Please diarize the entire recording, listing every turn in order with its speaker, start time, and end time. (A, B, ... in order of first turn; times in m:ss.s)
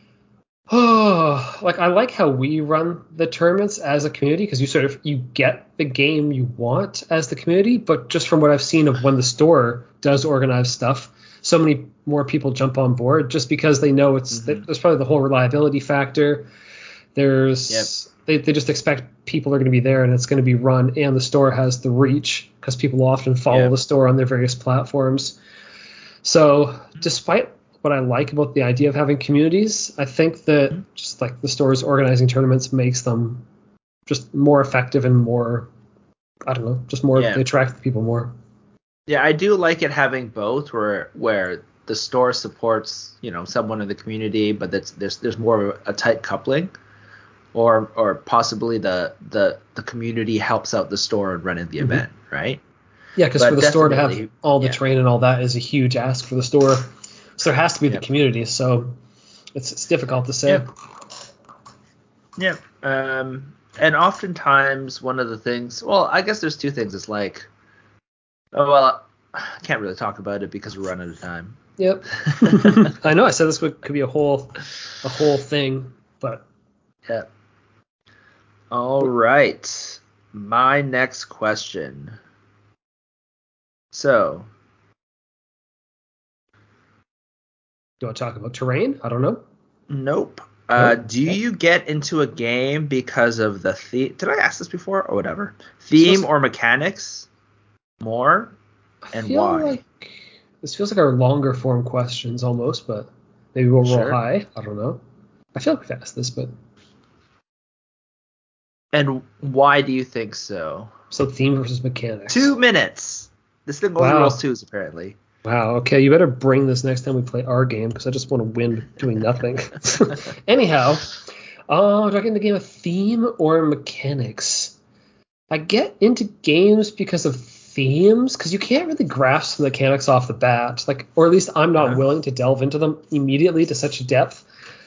0:00.7-0:16.5 A
0:14.3-0:14.6 B
0:17.1-0:25.4 A
0:26.2-0:33.4 A
0:34.1-0:35.7 A
0:36.5-0:38.3 A
0:37.2-0:37.4 B
0:39.1-0:46.7 B
0:47.5-0:52.6 B
0:53.2-0:59.0 A
0:53.4-0:54.8 B
0:59.6-1:00.6 A
1:02.4-1:07.5 B
1:08.5-1:11.6 B
1:11.8-1:16.5 A
1:12.2-1:12.9 B
1:18.7-1:22.2 B
1:23.9-1:24.5 B
1:28.0-1:29.4 A
1:29.9-1:37.3 B
1:30.8-1:31.0 A
1:36.0-1:36.2 A
1:38.0-1:38.6 B
1:39.1-1:45.0 A
1:39.1-1:39.8 B
1:43.8-1:44.2 B
1:45.5-1:46.5 A
1:48.9-1:50.9 B
1:51.1-1:52.5 A
1:52.3-1:55.2 B
1:54.0-1:54.4 A
1:55.4-2:04.8 A
2:05.5-2:14.5 A